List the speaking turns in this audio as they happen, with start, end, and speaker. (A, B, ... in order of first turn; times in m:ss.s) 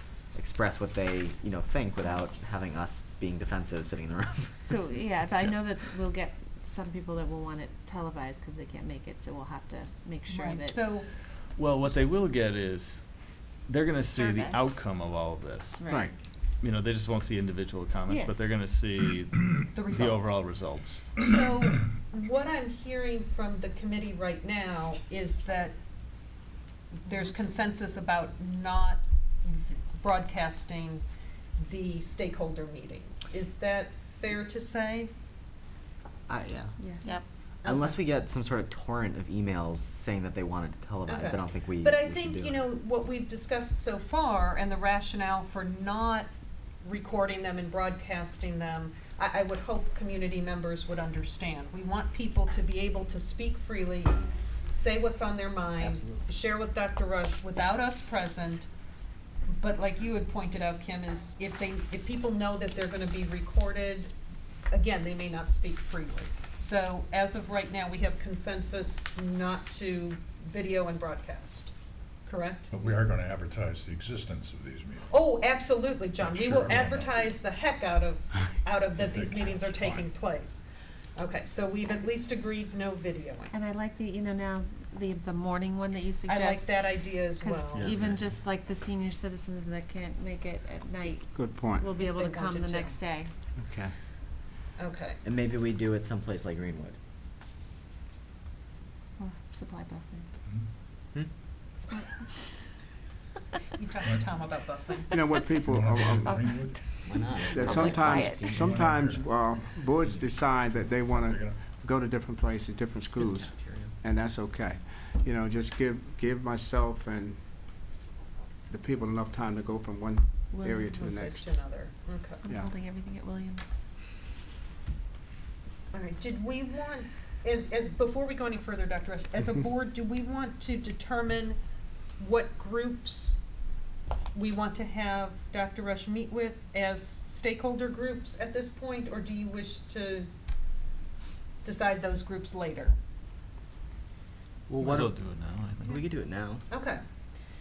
0:00.3-0:04.6 A
0:04.7-0:10.9 B
0:10.3-0:11.1 C
0:11.6-0:15.8 D
0:14.1-0:14.6 B
0:15.8-0:16.1 B
0:16.6-0:21.2 D
0:19.7-0:25.7 C
0:27.0-0:31.0 C
0:31.6-0:35.1 C
0:36.3-0:36.7 A
0:36.8-0:37.2 B
0:37.6-0:38.0 C
0:37.6-0:42.6 A
0:41.0-0:46.3 C
0:46.8-0:54.2 C
0:54.7-0:58.7 C
0:55.8-0:56.2 A
0:59.5-1:04.1 C
1:04.7-1:11.7 C
1:12.3-1:12.7 C
1:12.7-1:15.1 E
1:15.1-1:20.6 C
1:16.2-1:17.4 E
1:19.0-1:20.1 E
1:21.2-1:23.5 C
1:23.5-1:33.3 B
1:26.3-1:28.0 C
1:27.7-1:28.2 A
1:31.3-1:31.9 F
1:32.0-1:33.0 C
1:33.6-1:33.9 A
1:34.8-1:35.2 C
1:35.2-1:37.0 A
1:39.2-1:40.2 B
1:43.8-1:45.1 C
1:45.1-1:46.4 F
1:45.6-1:47.8 E
1:46.2-1:48.4 B
1:47.0-1:48.7 A
1:47.5-1:57.4 F
1:48.4-1:49.3 E
1:51.0-1:51.6 E
1:53.2-1:53.9 A
1:58.7-2:01.4 F
2:00.5-2:01.1 B
2:01.0-2:02.4 C
2:02.4-2:03.6 B
2:05.9-2:11.6 C
2:12.2-2:13.4 C
2:14.3-2:20.3 C
2:21.6-2:23.0 C
2:24.7-2:25.1 A
2:24.9-2:26.0 D
2:25.8-2:26.6 A
2:26.7-2:27.0 C